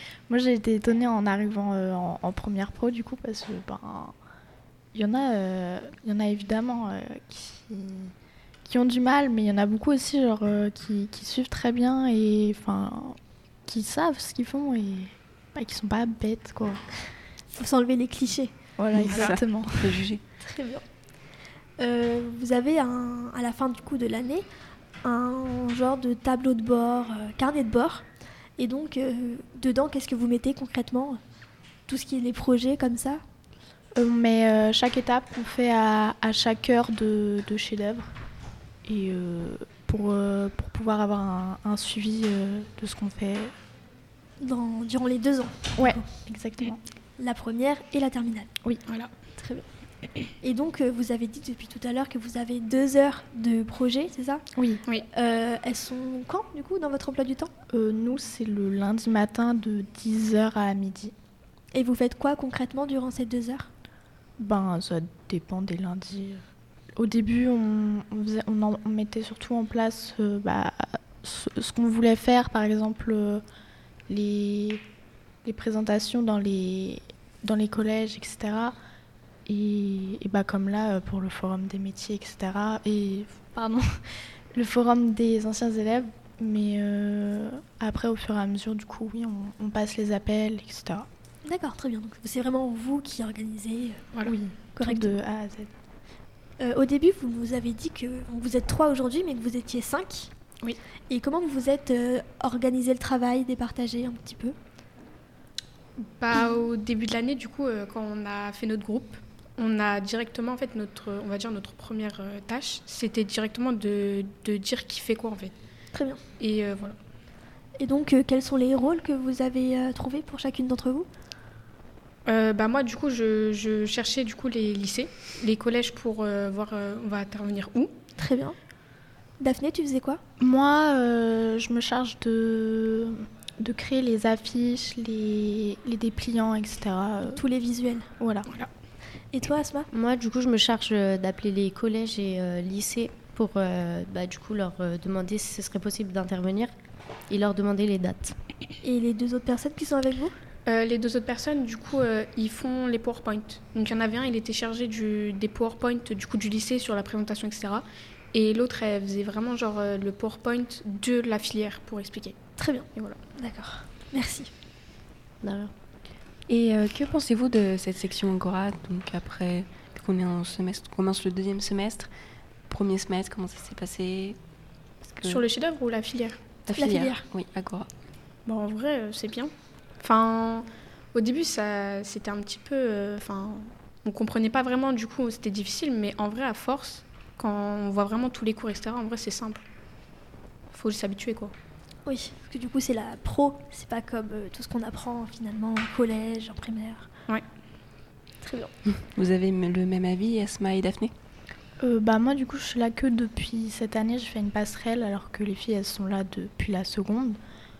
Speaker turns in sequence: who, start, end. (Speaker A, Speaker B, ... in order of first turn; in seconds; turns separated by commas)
Speaker A: 0.3-4.1, Speaker A: 4.9-8.1, Speaker A: 8.6-16.8, Speaker B: 17.6-18.5, Speaker A: 18.8-20.0, Speaker C: 18.9-20.2, Speaker B: 20.4-20.8, Speaker B: 21.8-24.5, Speaker B: 25.0-28.1, Speaker B: 28.6-31.2, Speaker B: 31.9-33.2, Speaker A: 34.0-38.1, Speaker A: 38.9-43.5, Speaker B: 44.4-46.0, Speaker A: 45.8-46.8, Speaker B: 47.2-48.5, Speaker B: 49.3-49.6, Speaker B: 50.4-54.4, Speaker A: 54.5-54.8, Speaker B: 55.1-57.5, Speaker A: 57.7-61.1, Speaker B: 61.7-63.7, Speaker A: 64.4-66.4, Speaker A: 67.0-73.4, Speaker A: 74.1-74.8, Speaker A: 75.4-78.8, Speaker A: 79.5-83.8, Speaker A: 84.5-91.1, Speaker B: 91.4-94.0, Speaker A: 94.2-95.7, Speaker B: 94.8-95.1, Speaker B: 96.6-100.3, Speaker B: 101.1-104.5, Speaker D: 106.0-115.5, Speaker B: 115.9-116.2, Speaker D: 116.4-117.0, Speaker B: 117.8-121.1, Speaker D: 122.2-127.9, Speaker B: 128.2-128.6, Speaker B: 129.4-130.2, Speaker A: 130.4-137.4, Speaker B: 137.3-138.1, Speaker A: 138.2-138.5, Speaker B: 139.3-139.9, Speaker E: 139.9-146.7, Speaker E: 147.3-148.3, Speaker B: 148.8-150.3, Speaker D: 150.7-162.4, Speaker B: 162.6-164.5, Speaker E: 165.4-165.7, Speaker C: 166.5-172.1, Speaker C: 172.7-174.4, Speaker C: 175.1-175.4, Speaker D: 175.2-176.4, Speaker C: 176.7-177.9, Speaker B: 176.7-177.2, Speaker D: 178.4-189.6, Speaker D: 190.7-191.5, Speaker B: 192.0-197.1, Speaker B: 198.4-198.7, Speaker C: 199.1-201.1, Speaker A: 201.8-207.4